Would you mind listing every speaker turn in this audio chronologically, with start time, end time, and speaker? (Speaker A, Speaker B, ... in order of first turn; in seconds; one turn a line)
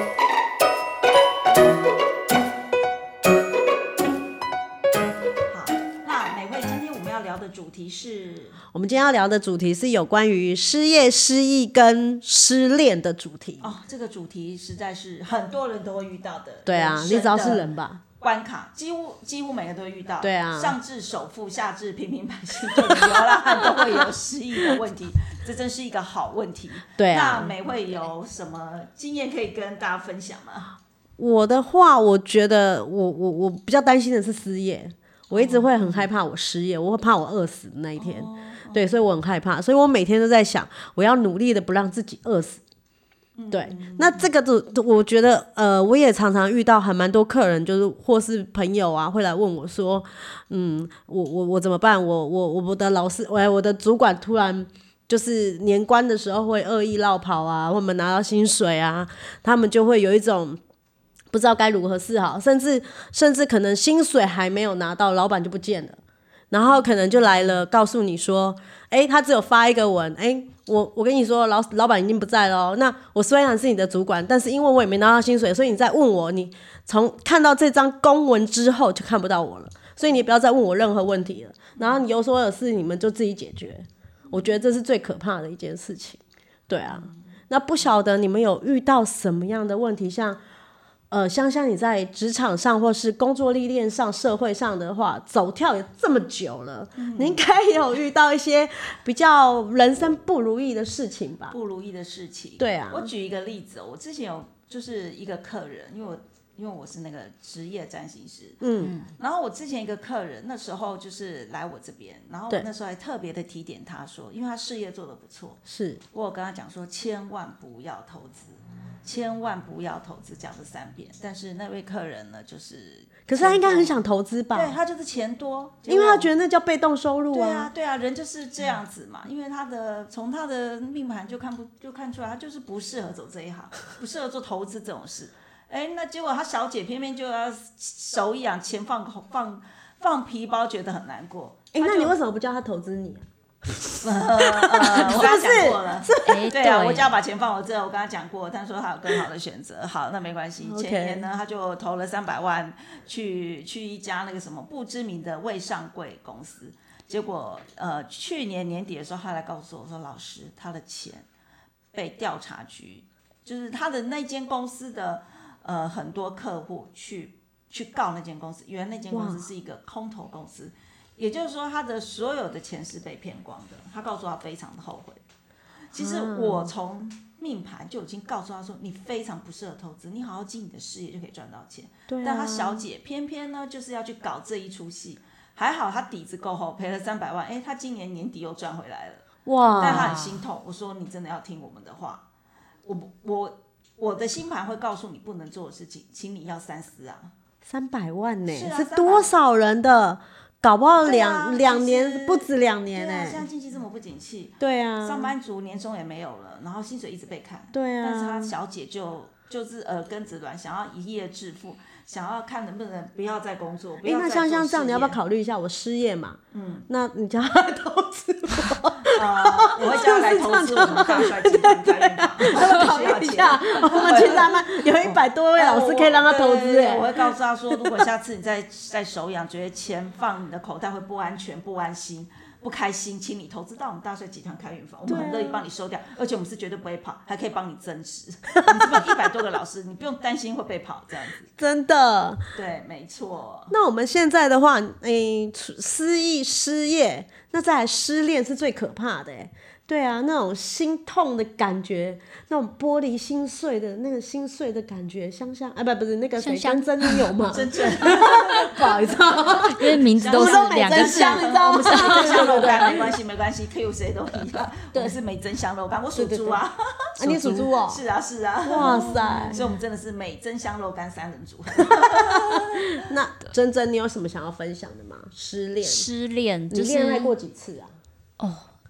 Speaker A: 5.5-8.6
Speaker B: 8.7-13.8
Speaker A: 13.6-30.8
Speaker B: 16.7-18.0
Speaker B: 20.2-20.8
Speaker B: 27.0-27.6
Speaker B: 31.2-42.6
Speaker A: 35.3-36.1
Speaker A: 38.0-38.9
Speaker A: 43.4-44.3
Speaker B: 43.5-60.6
Speaker B: 61.3-66.0
Speaker B: 66.5-90.4
Speaker A: 66.7-67.4
Speaker A: 81.8-82.0
Speaker A: 86.9-87.2
Speaker B: 91.1-101.6
Speaker A: 97.0-97.4
Speaker A: 101.5-108.6
Speaker B: 102.6-103.1
Speaker B: 108.6-109.0
Speaker C: 108.8-109.1
Speaker A: 109.2-115.6
Speaker B: 115.7-116.0
Speaker A: 116.1-124.0
Speaker B: 123.3-124.8
Speaker A: 124.5-126.3
Speaker B: 125.9-127.7
Speaker A: 127.3-142.2
Speaker B: 141.7-143.2
Speaker A: 144.0-161.3
Speaker B: 144.4-146.6
Speaker C: 144.9-145.3
Speaker C: 146.2-147.1
Speaker B: 150.6-151.3
Speaker A: 161.9-175.2
Speaker B: 169.1-169.5
Speaker A: 175.9-189.2
Speaker B: 175.9-176.7
Speaker B: 182.1-182.9
Speaker B: 189.5-190.2
Speaker C: 189.8-190.4
Speaker A: 189.8-192.2
Speaker A: 192.8-197.3
Speaker B: 197.6-203.4
Speaker A: 198.5-199.3
Speaker A: 201.0-215.2
Speaker B: 204.6-205.3
Speaker B: 207.7-208.5
Speaker B: 214.0-227.8
Speaker A: 216.5-216.9
Speaker A: 219.1-241.5
Speaker B: 235.1-235.6
Speaker B: 238.7-239.1
Speaker B: 241.6-242.4
Speaker A: 242.5-243.7
Speaker B: 243.7-263.1
Speaker C: 256.4-257.4
Speaker A: 257.5-259.6
Speaker C: 259.6-262.9
Speaker A: 260.1-272.9
Speaker B: 266.1-266.6
Speaker B: 267.2-268.0
Speaker B: 268.6-269.6
Speaker C: 268.8-269.6
Speaker B: 271.9-272.2
Speaker B: 273.0-276.1
Speaker C: 275.8-277.4
Speaker B: 276.7-277.9
Speaker C: 278.4-278.6